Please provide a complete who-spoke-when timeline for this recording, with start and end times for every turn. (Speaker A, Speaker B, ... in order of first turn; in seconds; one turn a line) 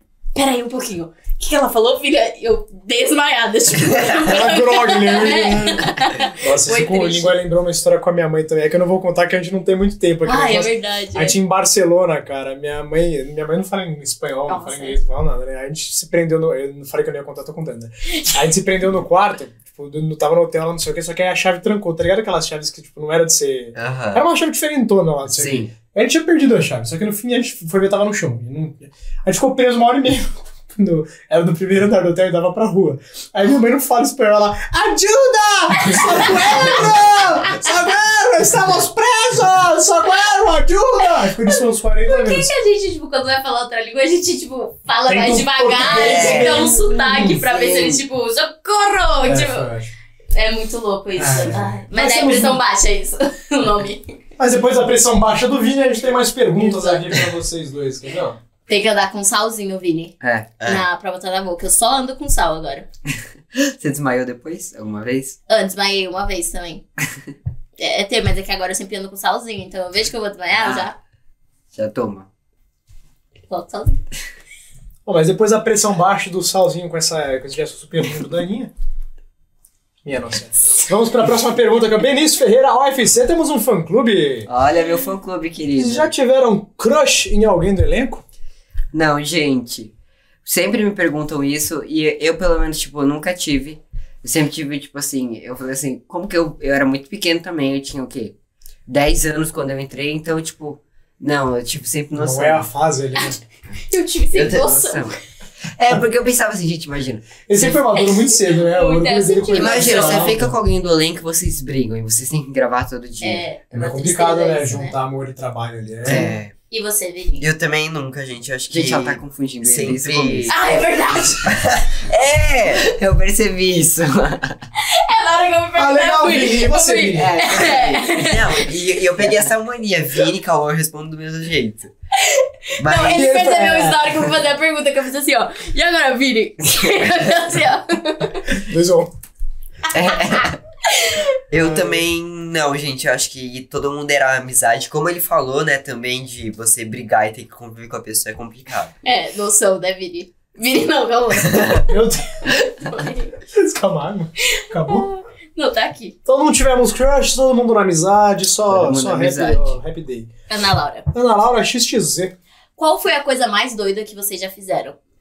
Speaker A: 0.3-7.3
Speaker B: 4.2-5.9
Speaker B: 6.4-42.5
Speaker A: 10.2-11.3
Speaker A: 14.5-15.0
Speaker C: 23.7-24.2
Speaker D: 25.3-25.7
Speaker A: 35.8-36.9
Speaker A: 42.1-49.7
Speaker B: 45.1-47.4
Speaker C: 45.8-46.7
Speaker D: 47.3-48.0
Speaker B: 49.2-49.9
Speaker A: 50.3-54.2
Speaker B: 51.2-52.6
Speaker B: 54.4-58.4
Speaker A: 56.6-57.0
Speaker A: 58.7-60.1
Speaker D: 60.2-60.6
Speaker C: 60.6-60.9
Speaker A: 60.6-62.9
Speaker D: 63.5-65.4
Speaker A: 65.5-66.8
Speaker A: 67.8-71.0
Speaker D: 70.5-70.9
Speaker D: 71.7-72.3
Speaker A: 73.5-74.0
Speaker B: 75.0-78.7
Speaker B: 80.0-84.5
Speaker D: 84.5-86.1
Speaker B: 85.8-88.2
Speaker D: 88.9-89.9
Speaker D: 90.5-98.3
Speaker D: 98.9-102.7
Speaker B: 102.1-103.4
Speaker A: 103.9-105.1
Speaker D: 104.3-105.2
Speaker C: 104.4-104.6
Speaker D: 105.7-107.3
Speaker B: 107.5-110.5
Speaker A: 107.5-110.4
Speaker D: 109.5-113.5
Speaker A: 113.2-114.9
Speaker B: 113.7-116.3
Speaker C: 116.0-116.5
Speaker D: 116.0-116.4
Speaker A: 116.7-117.4
Speaker C: 117.4-120.6
Speaker D: 118.7-120.7
Speaker A: 120.5-121.8
Speaker C: 121.4-122.9
Speaker D: 122.8-124.5
Speaker A: 124.8-128.6
Speaker B: 125.8-127.4
Speaker D: 127.1-128.1
Speaker C: 128.1-131.9
Speaker A: 132.2-138.6
Speaker C: 132.8-133.3
Speaker B: 133.1-134.2
Speaker B: 138.5-139.1
Speaker D: 139.9-140.6
Speaker A: 140.1-141.3
Speaker C: 141.5-148.9
Speaker B: 141.5-142.0
Speaker A: 149.0-153.3
Speaker B: 151.9-152.4
Speaker B: 153.5-155.1
Speaker A: 154.6-156.2
Speaker B: 156.2-160.3
Speaker D: 158.7-159.8
Speaker A: 160.5-161.1
Speaker B: 161.1-162.3
Speaker A: 162.8-164.9